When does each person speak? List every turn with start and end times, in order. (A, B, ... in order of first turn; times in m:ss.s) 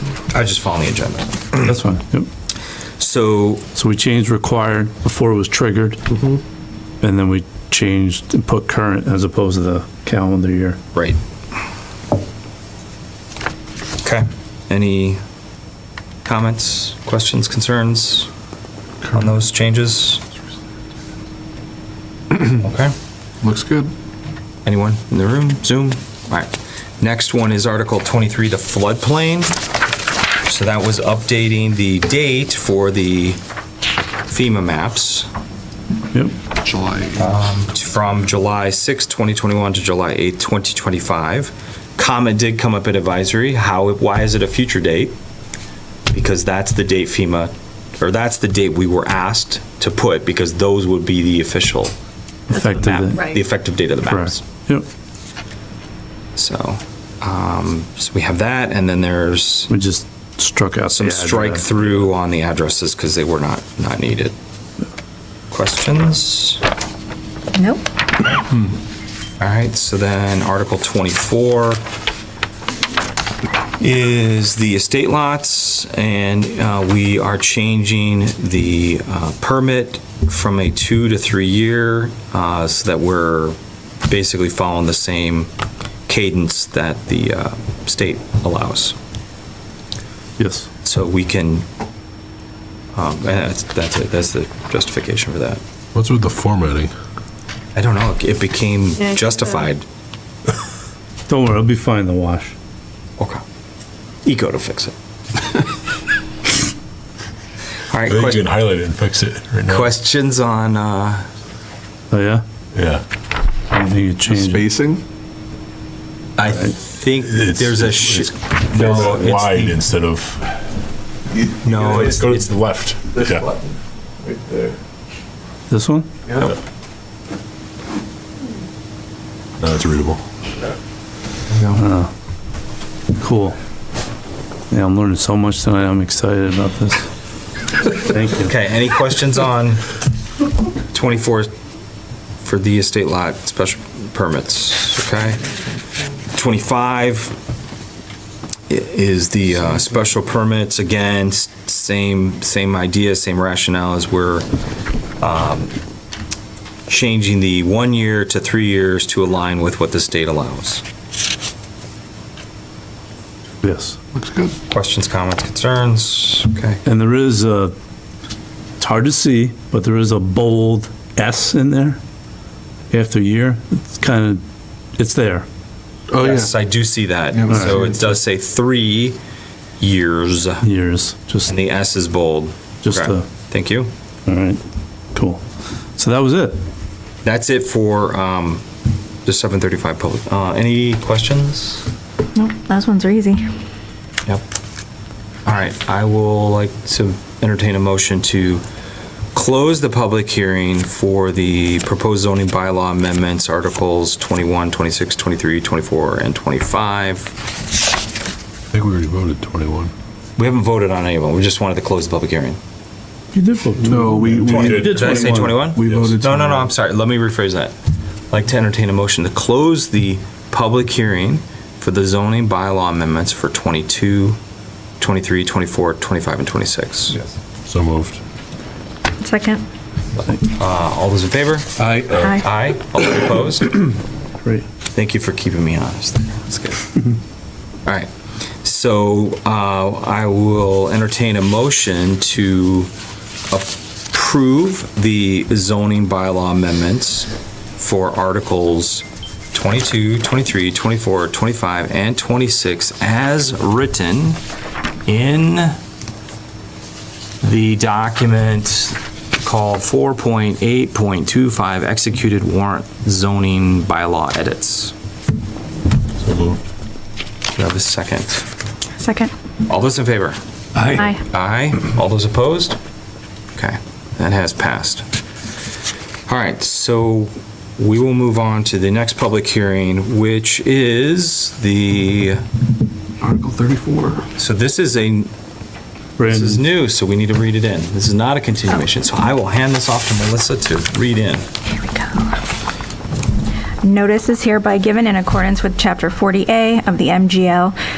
0:00.3-0:01.7 A
0:01.6-0:02.3 B
0:03.0-0:03.6 A
0:03.7-0:06.0 B
0:07.0-0:10.8 B
0:14.0-0:15.2 A
0:16.2-0:18.3 A
0:19.1-0:20.2 A
0:22.4-0:22.9 A
0:23.4-0:23.9 C
0:24.6-0:29.5 A
0:30.5-0:33.4 A
0:34.3-0:35.3 A
0:36.7-0:37.0 C
0:37.0-0:45.1 A
0:46.1-0:51.9 A
0:52.5-0:53.3 B
0:52.7-0:54.4 A
0:54.0-0:54.8 B
0:56.4-0:59.7 A
0:59.7-1:01.6 B
1:00.9-1:04.3 A
1:05.5-1:06.6 A
1:07.5-1:07.8 D
1:09.4-1:11.8 A
1:13.8-1:23.5 A
1:24.1-1:25.5 A
1:26.1-1:28.9 A
1:30.4-1:30.7 B
1:30.8-1:31.6 A
1:32.9-1:35.6 A
1:35.9-1:36.9 E
1:37.7-1:39.8 A
1:41.3-1:42.5 B
1:44.2-1:44.9 A
1:47.9-1:48.5 A
1:48.1-1:49.9 E
1:49.7-1:51.2 A
1:52.1-1:52.4 B
1:52.7-1:53.0 E
1:53.7-1:54.6 B
1:54.3-1:55.0 C
1:56.4-1:59.8 A
1:57.3-2:00.4 E
2:01.6-2:02.5 A
2:01.8-2:03.5 E
2:04.3-2:04.7 C
2:05.7-2:06.1 B
2:09.6-2:10.2 E
2:11.7-2:12.1 B
2:13.2-2:13.6 B
2:14.7-2:17.1 B
2:18.0-2:18.5 B
2:18.4-2:19.8 A
2:20.9-2:21.5 A
2:22.4-2:25.4 A
2:26.3-2:27.4 A
2:28.7-2:34.4 A
2:35.2-2:35.8 A
2:36.9-2:40.8 A
2:43.6-2:44.0 B
2:44.1-2:44.5 C
2:44.7-2:46.8 A
2:46.8-2:47.7 B
2:48.8-2:52.0 B
2:52.9-2:54.4 B
2:55.0-2:55.5 B
2:56.1-2:56.5 C
2:56.2-2:59.2 A
2:57.3-2:58.0 C
2:59.8-3:00.6 A
3:00.6-3:01.5 B
3:01.4-3:03.9 A
3:02.8-3:03.2 B
3:04.2-3:04.6 B
3:05.1-3:05.4 B
3:06.0-3:06.6 B
3:07.2-3:08.6 A
3:09.2-3:11.8 A
3:12.3-3:13.5 D
3:15.4-3:18.6 A
3:19.3-3:27.3 A
3:28.7-3:29.9 E
3:30.4-3:32.6 A
3:33.3-3:35.6 B
3:33.8-3:35.0 C
3:34.5-3:37.7 A
3:34.5-3:36.4 E
3:35.6-3:36.7 C
3:38.3-3:44.4 A
3:45.0-3:47.2 A
3:47.6-3:48.2 E
3:49.2-3:49.6 D
3:50.4-3:51.7 A
3:52.2-3:53.9 A
3:54.9-3:56.9 A
3:58.6-4:02.9 A
4:03.5-4:14.4 A
4:15.0-4:15.8 A
4:17.4-4:24.9 A
4:26.2-4:26.6 E
4:27.5-4:28.4 A
4:29.0-4:29.3 D
4:29.6-4:32.8 A
4:33.6-4:35.0 A
4:36.3-4:42.4 A
4:43.2-4:44.2 C
4:44.4-4:45.3 A
4:46.2-4:46.6 B
4:46.2-4:51.4 A
4:51.8-4:52.3 D
4:53.8-4:57.7 D